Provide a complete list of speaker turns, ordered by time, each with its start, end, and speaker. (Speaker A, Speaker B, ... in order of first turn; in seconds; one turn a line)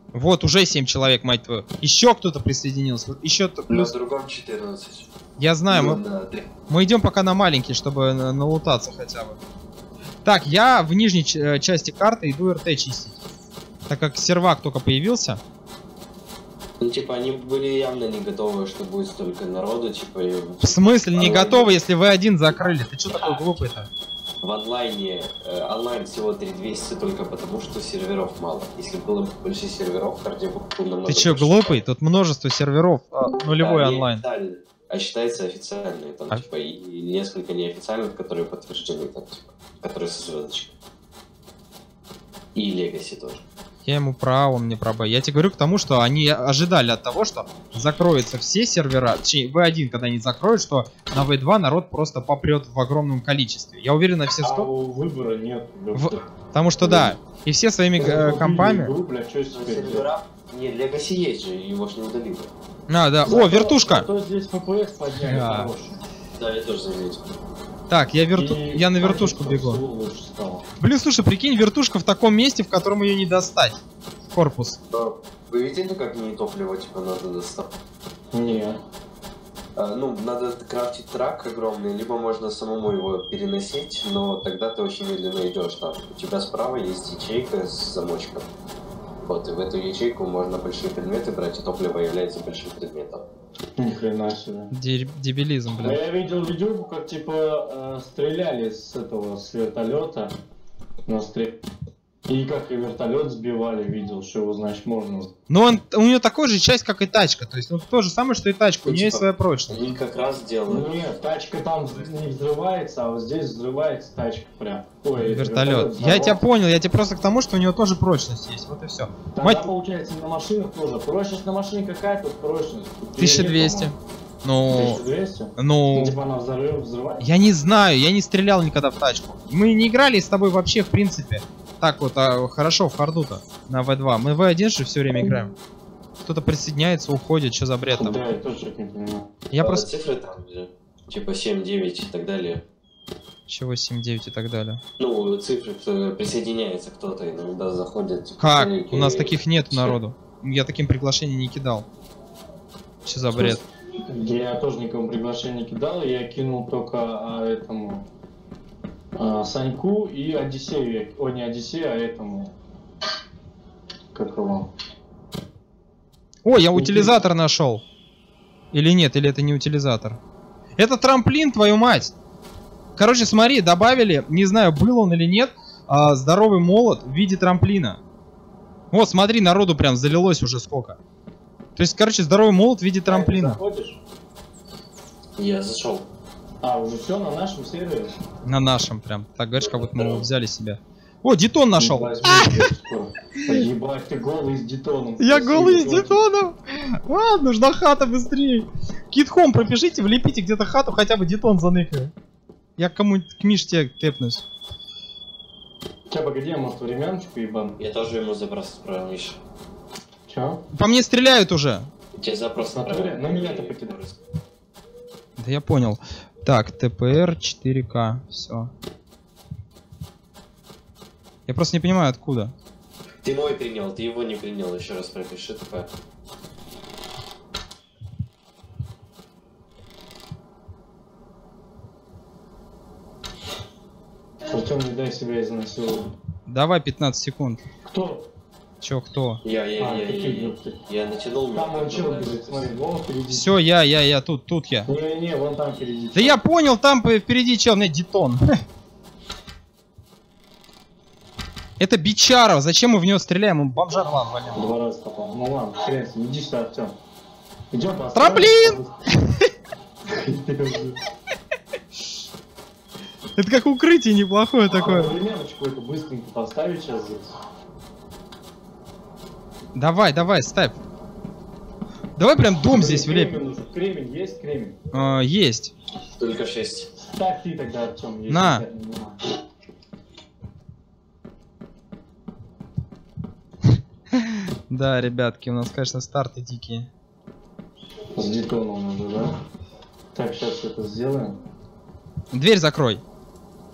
Speaker A: 0.1-3.9
Speaker B: 3.7-5.1
Speaker A: 5.4-6.0
Speaker B: 5.7-6.5
Speaker A: 6.7-9.4
Speaker A: 10.2-13.2
Speaker A: 13.9-15.4
Speaker B: 16.8-21.8
Speaker A: 20.6-23.9
Speaker B: 23.1-23.5
Speaker B: 24.4-31.8
Speaker A: 31.1-34.2
Speaker B: 33.6-40.7
Speaker B: 42.5-43.4
Speaker A: 43.8-54.7
Speaker C: 54.4-56.2
Speaker A: 55.9-58.9
Speaker C: 56.8-57.1
Speaker C: 58.0-60.0
Speaker B: 59.5-62.5
Speaker A: 62.9-64.0
Speaker C: 63.2-66.0
Speaker A: 65.2-65.7
Speaker B: 66.4-67.3
Speaker A: 67.9-69.8
Speaker C: 68.3-70.7
Speaker A: 70.8-73.8
Speaker A: 74.3-74.8
Speaker B: 74.9-77.7
Speaker C: 78.3-78.8
Speaker B: 79.8-88.5
Speaker B: 89.2-93.2
Speaker C: 93.8-94.7
Speaker A: 94.7-96.0
Speaker C: 95.7-100.3
Speaker C: 101.0-101.5
Speaker C: 102.3-105.3
Speaker A: 105.5-109.8
Speaker B: 108.8-111.0
Speaker C: 110.7-116.4
Speaker A: 115.2-119.7
Speaker C: 119.3-123.9
Speaker A: 123.2-125.0
Speaker C: 124.7-127.2
Speaker A: 125.6-126.2
Speaker A: 127.2-135.5
Speaker A: 136.2-138.3
Speaker C: 137.9-139.3
Speaker A: 139.5-139.9
Speaker B: 139.6-142.6
Speaker A: 143.5-144.8
Speaker B: 145.0-150.0
Speaker A: 148.4-151.9
Speaker A: 153.0-153.6
Speaker C: 154.1-158.1
Speaker C: 159.2-162.5
Speaker C: 164.1-164.7
Speaker A: 166.4-167.8
Speaker C: 166.7-167.2
Speaker A: 168.7-170.2
Speaker A: 170.8-172.1
Speaker A: 172.9-178.0
Speaker A: 178.9-181.0
Speaker A: 181.8-183.6
Speaker C: 183.1-184.0
Speaker B: 185.4-186.1
Speaker C: 186.6-188.1
Speaker A: 188.4-192.7
Speaker B: 189.6-190.2
Speaker C: 191.8-196.2
Speaker A: 195.2-202.1
Speaker A: 202.8-204.4
Speaker C: 206.1-207.7
Speaker B: 207.8-209.4
Speaker C: 210.3-210.6
Speaker A: 210.7-211.9
Speaker B: 212.2-214.2
Speaker C: 212.6-213.9
Speaker A: 215.4-218.7
Speaker A: 221.4-222.5
Speaker B: 223.2-225.9
Speaker C: 234.5-236.1
Speaker A: 236.5-237.6
Speaker C: 237.9-238.3
Speaker A: 238.8-239.4
Speaker B: 239.4-242.7
Speaker C: 239.8-240.8
Speaker C: 241.5-243.5
Speaker A: 243.3-244.9
Speaker C: 244.9-246.4
Speaker A: 246.1-248.5
Speaker A: 251.8-254.7
Speaker C: 254.5-256.9
Speaker C: 257.7-259.0
Speaker A: 258.1-259.5
Speaker C: 260.1-261.0
Speaker A: 263.4-265.1
Speaker C: 264.8-267.3
Speaker A: 269.7-270.8
Speaker A: 272.1-273.4
Speaker C: 272.7-274.8
Speaker A: 274.9-275.7
Speaker B: 276.1-276.9
Speaker C: 277.0-279.2
Speaker A: 278.3-278.6
Speaker A: 284.1-286.9
Speaker C: 288.1-289.3
Speaker C: 290.1-291.4
Speaker A: 292.3-293.0